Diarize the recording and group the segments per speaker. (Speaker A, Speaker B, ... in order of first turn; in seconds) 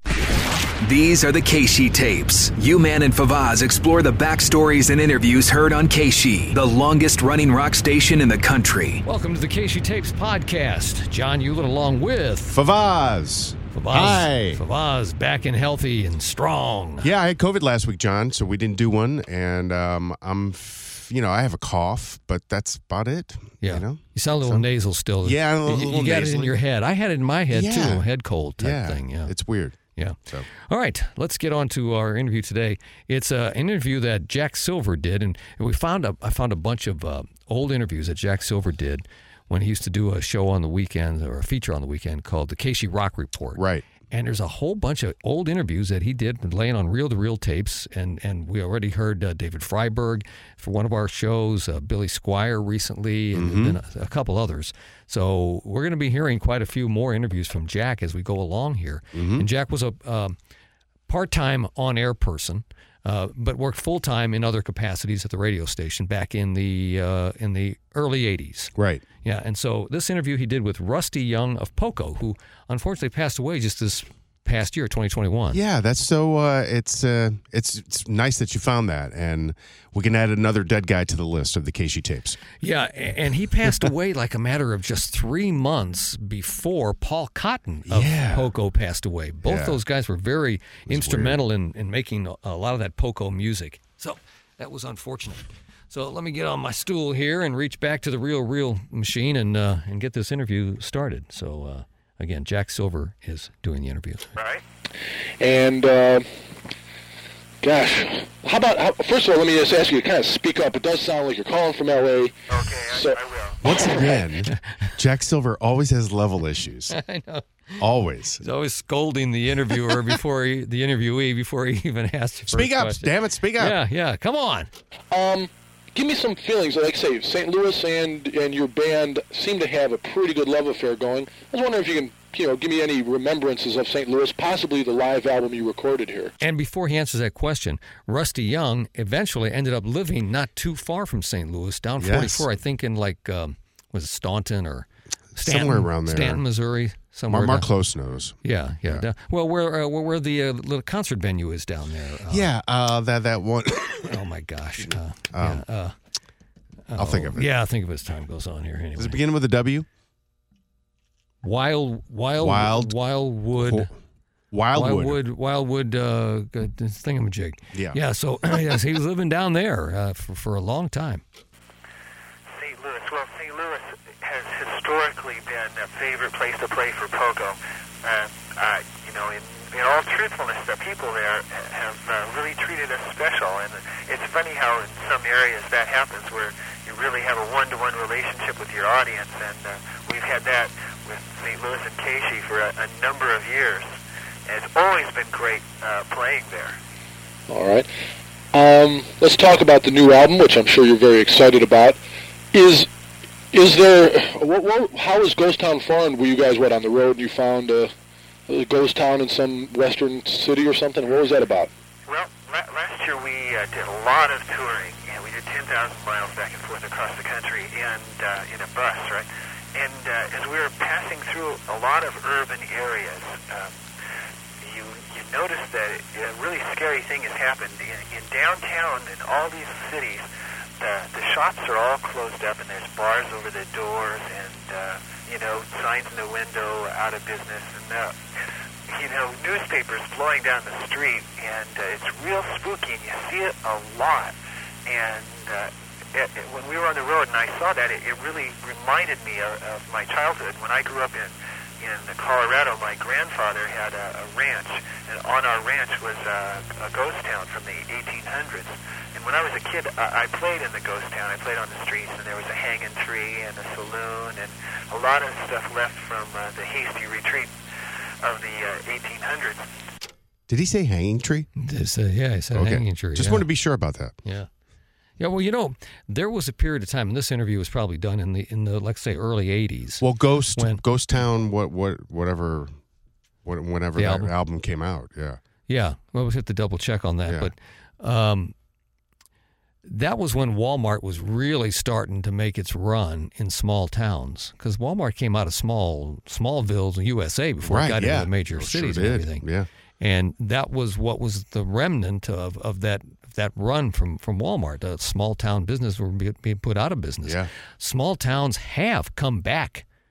Speaker A: 0.8-9.0
Speaker B: 9.0-12.6, 13.7-17.1, 23.6-29.3, 30.0-60.4, 61.1-68.7, 69.2-75.6, 82.6-104.3, 113.8-114.5, 116.9-117.5, 118.4-124.7, 136.4-147.7, 148.4-152.5, 154.1-155.9, 156.9-159.2, 161.4-163.9, 164.7-171.2, 271.6-273.5, 274.2-274.5, 275.2-280.0, 280.6-280.8, 284.0-284.3, 285.7-288.5, 289.8-299.4, 300.0-309.9
Speaker C: 12.5-14.6, 17.0-24.7, 25.2-26.6, 27.5-28.1, 28.6-30.5, 43.5-43.8, 53.3-53.8, 59.1-59.5, 68.8-69.0, 75.5-82.4, 87.9-88.5, 89.4-89.8, 90.9-91.4, 113.6-117.0, 117.8-118.4, 122.5-123.8, 142.0-142.5, 145.4-146.4, 147.3-149.1, 152.3-154.2, 155.3-155.6, 156.9-157.5, 158.9-159.9, 162.4-162.9, 163.6-163.9, 164.5-165.2, 167.7-168.0, 270.5-271.5, 272.5-274.1, 280.0-282.7, 283.4-285.4, 287.2-287.5, 297.6-299.7, 307.2-307.5
Speaker D: 104.3-104.6, 112.5-113.6, 172.5-193.9, 194.5-196.8, 212.1-223.7, 224.6-230.3, 230.8-238.1, 238.9-267.5, 268.2-269.6
Speaker E: 105.4-106.2, 107.6-113.2, 113.8-114.1, 125.1-136.3, 197.5-197.9, 198.5-202.0, 202.5-202.9, 203.5-207.9, 208.5-211.7